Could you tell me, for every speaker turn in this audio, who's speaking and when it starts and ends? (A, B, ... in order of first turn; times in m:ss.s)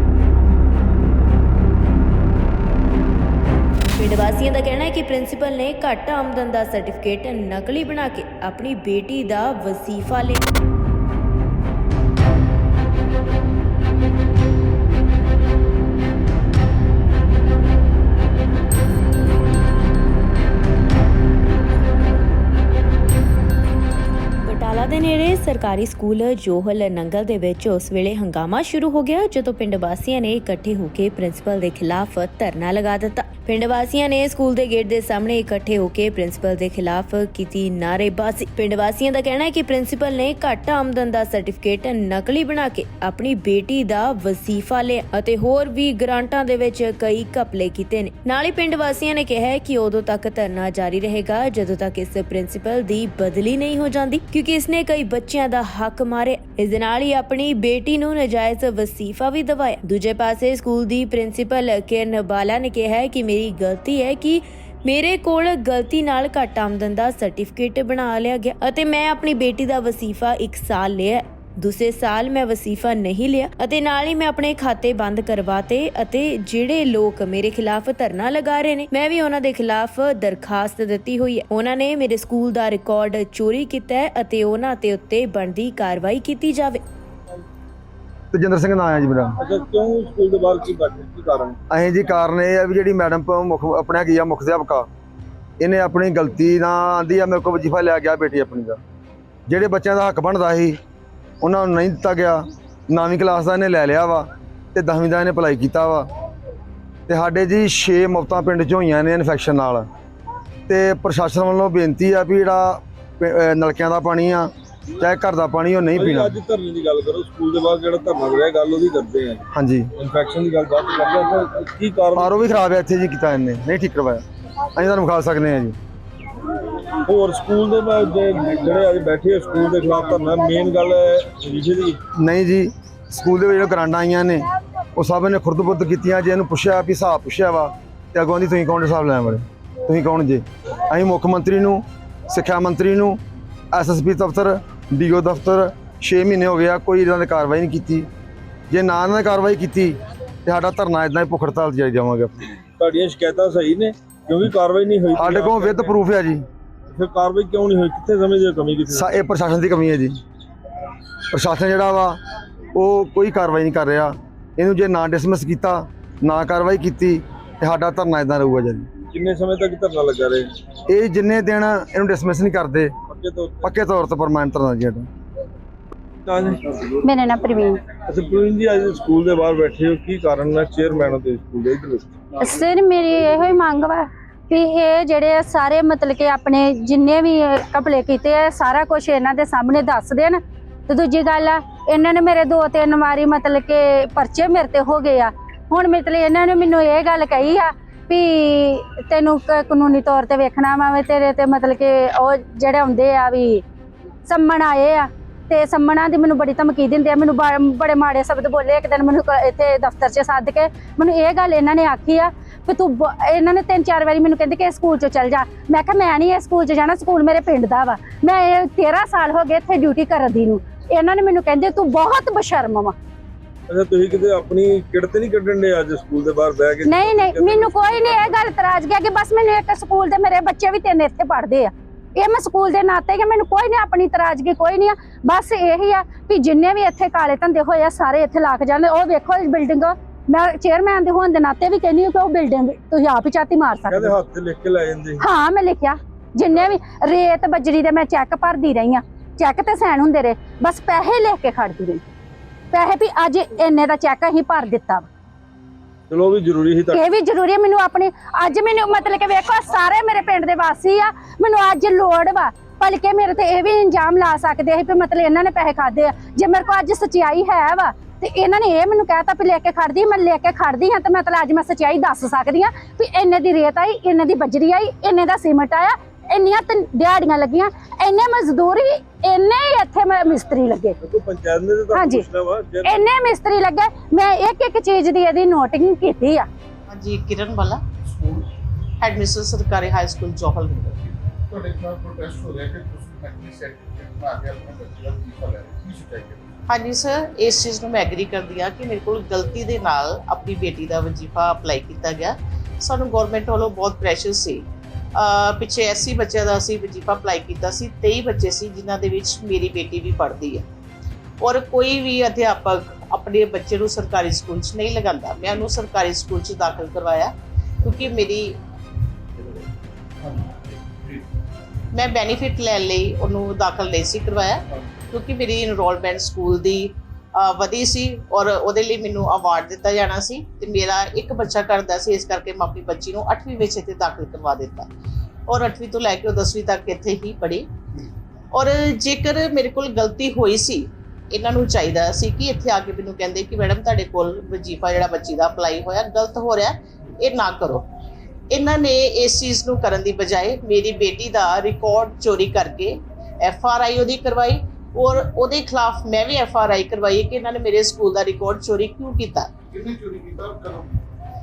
0:04.0-0:10.4 A
0:24.4-1:26.8 A
1:28.3-1:29.3 B
1:29.4-1:31.6 C
1:31.7-1:34.9 B
1:35.6-1:38.8 B
1:39.5-1:40.8 B
1:41.4-1:46.0 B
1:47.1-1:49.8 B
1:50.7-1:54.5 B
1:55.0-1:56.4 B
1:55.9-2:02.6 C
1:59.5-1:59.9 B
2:02.1-2:04.2 B
2:04.7-2:05.8 B
2:07.0-2:12.0 C
2:12.2-2:23.2 B
2:23.7-2:28.1 B
2:28.7-2:32.5 B
2:32.8-2:36.0 C
2:35.2-2:36.4 B
2:36.9-2:39.1 C
2:38.9-2:40.2 B
2:41.3-2:42.2 B
2:42.7-2:48.9 B
2:49.1-2:50.5 C
2:50.9-2:52.9 B
2:53.1-2:53.7 C
2:53.6-2:55.1 B
2:56.2-2:57.0 C
2:57.0-2:57.8 D
2:58.0-3:02.1 C
3:02.4-3:23.6 D
3:24.2-3:43.0 D
3:43.7-3:48.4 C
3:46.8-4:04.2 D
4:03.9-4:05.2 C
4:05.2-4:12.0 D
4:12.7-4:15.1 D
4:16.1-4:17.0 C
4:16.9-4:41.0 D
4:41.0-4:43.0 C
4:41.9-4:42.3 D
4:42.8-4:46.5 D
4:46.9-4:47.8 E
4:48.0-4:48.5 F
4:49.0-4:51.0 E
4:51.5-4:56.5 F
4:56.7-5:04.6 E
5:05.2-5:10.6 E
5:11.4-5:18.6 E
5:20.2-5:20.5 F
5:21.9-5:34.9 E
5:35.5-5:37.7 E
5:38.5-5:47.8 E
5:48.5-5:59.5 E
5:59.7-6:01.0 F